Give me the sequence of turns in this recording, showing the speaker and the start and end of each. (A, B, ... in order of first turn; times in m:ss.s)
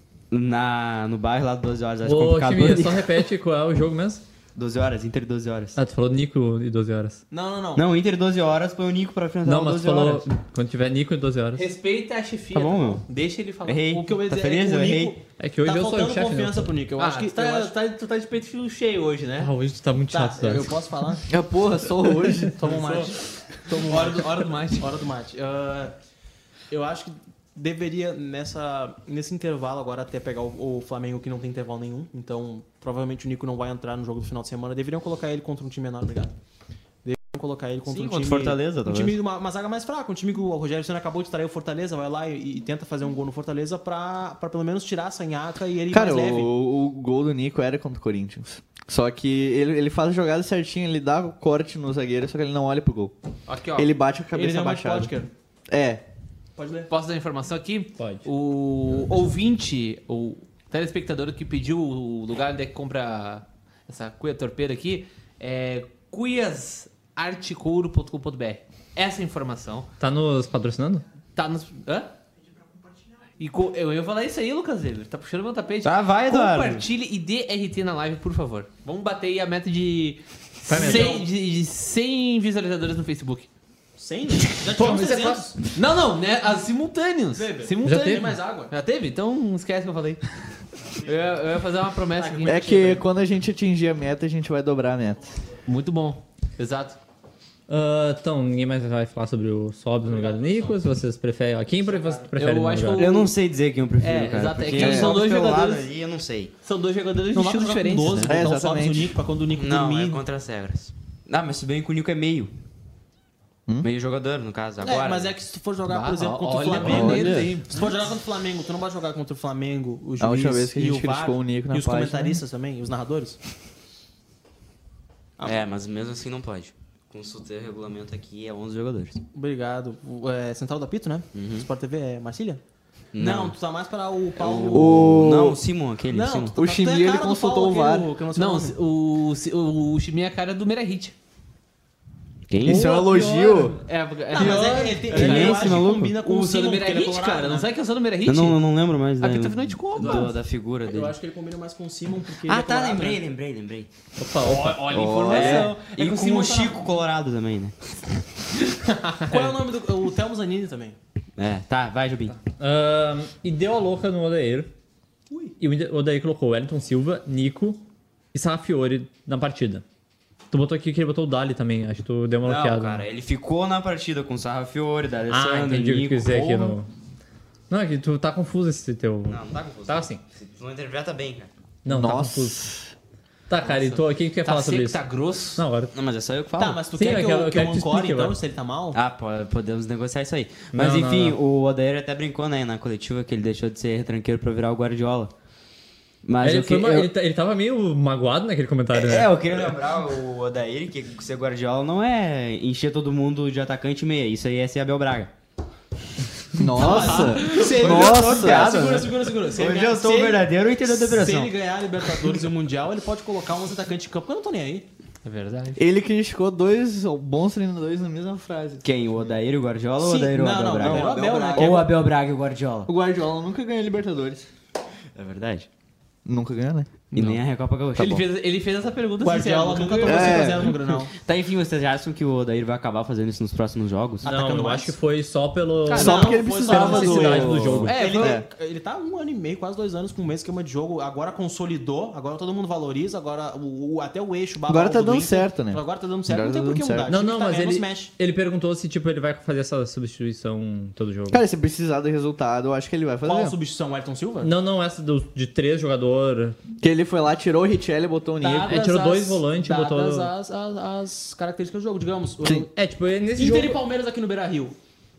0:00.3-0:03.2 A
0:02.0-0:04.2 B
0:04.6-0:05.8 A
0:05.8-0:07.2 B
0:07.3-0:07.9 C
0:07.7-0:10.3 A
0:09.4-0:11.7 B
0:11.6-0:14.0 D
0:12.5-0:13.0 A
0:13.6-0:15.2 A
0:13.9-0:17.7 C
0:15.4-0:16.7 B
0:17.0-0:19.5 D
0:19.4-0:20.8 B
0:20.1-0:21.2 C
0:21.3-0:22.6 E
0:22.6-0:25.9 C
0:22.6-0:23.1 D
0:23.7-0:24.9 D
0:26.7-0:36.3 C
0:37.0-0:46.5 C
0:37.8-0:39.2 A
0:45.9-0:53.1 E
0:53.5-0:53.9 D
0:53.7-0:55.1 E
0:54.3-0:55.3 C
0:55.7-0:56.0 E
0:56.6-0:56.9 C
0:56.9-1:09.9 D
0:58.0-0:58.3 B
1:10.0-1:11.0 B
1:11.4-1:12.1 D
1:13.4-1:23.5 D
1:15.8-1:16.8 A
1:20.7-1:21.2 B
1:20.7-1:21.3 C
1:24.0-1:25.6 C
1:24.7-1:25.5 B
1:25.7-1:30.2 D
1:27.3-1:28.7 C
1:27.8-1:28.3 B
1:31.0-1:33.0 D
1:32.2-1:33.0 C
1:32.4-1:35.3 E
1:35.6-1:37.0 D
1:37.7-1:43.1 B
1:40.0-1:40.8 C
1:41.8-1:42.3 C
1:42.4-1:43.3 D
1:42.9-1:46.5 A
1:44.0-1:45.9 D
1:44.7-1:45.2 E
1:46.6-1:48.4 D
1:47.3-1:50.2 C
1:48.2-1:49.2 E
1:49.5-1:52.5 A
1:53.8-1:55.4 A
1:54.8-2:03.4 C
1:55.9-1:58.0 D
1:56.8-1:57.5 E
2:00.2-2:02.4 E
2:05.4-2:09.2 A
2:09.3-2:12.6 C
2:11.3-2:11.7 A
2:13.1-2:13.6 A
2:13.2-2:15.2 C
2:14.4-2:16.6 A
2:14.7-2:15.6 E
2:16.1-2:18.8 C
2:16.6-2:18.1 E
2:18.3-2:21.1 D
2:22.5-2:22.9 A
2:22.6-2:23.8 E
2:22.6-2:28.6 D
2:24.3-2:27.7 C
2:25.0-2:26.2 A
2:28.2-2:31.2 A
2:29.2-2:30.3 D
2:30.0-2:33.2 C
2:32.4-2:33.9 A
2:34.2-2:34.9 B
2:34.4-2:36.7 D
2:34.9-2:35.7 E
2:35.2-2:37.7 A
2:38.7-2:39.6 D
2:39.3-2:41.0 C
2:41.4-2:42.4 A
2:42.5-2:44.7 B
2:45.3-2:45.5 C
2:45.6-2:49.8 B
2:50.5-2:53.0 B
2:52.4-2:56.8 A
2:55.3-2:56.9 B
2:57.7-3:00.2 B
2:59.3-3:01.5 A
3:01.8-3:02.7 B
3:01.8-3:02.9 E
3:03.5-3:05.0 B
3:03.6-3:05.6 D
3:05.6-3:05.9 B
3:05.9-3:06.8 A
3:06.6-3:09.0 C
3:06.9-3:08.4 B
3:08.9-3:15.3 A
3:10.7-3:11.4 B
3:16.2-3:17.1 A
3:16.4-3:19.4 B
3:18.9-3:25.3 A
3:26.5-3:28.8 E
3:26.7-3:34.8 C
3:27.0-3:27.5 D
3:27.6-3:31.5 A
3:35.2-3:35.8 D
3:35.8-3:38.8 E
3:38.8-3:42.9 A
3:40.0-3:41.9 C
3:40.8-3:41.9 E
3:42.9-3:44.5 E
3:45.1-3:45.7 A
3:46.2-3:46.9 E
3:47.1-3:48.2 A
3:47.1-3:47.4 D
3:48.0-3:50.7 D
3:49.2-3:51.1 C
3:50.0-3:50.8 E
3:51.1-3:54.3 A
3:54.2-3:55.0 C
3:54.2-3:58.0 B
3:55.9-3:56.5 D
3:55.9-4:08.1 C
3:55.9-3:58.5 E
3:57.8-3:58.4 D
4:04.7-4:07.1 E
4:07.1-4:11.4 B
4:11.3-4:13.5 E
4:13.2-4:14.5 C
4:14.4-4:16.6 B
4:16.8-4:18.9 E
4:18.4-4:22.7 C
4:18.7-4:20.3 B
4:22.4-4:22.7 E
4:22.7-4:23.8 B
4:23.4-4:24.8 C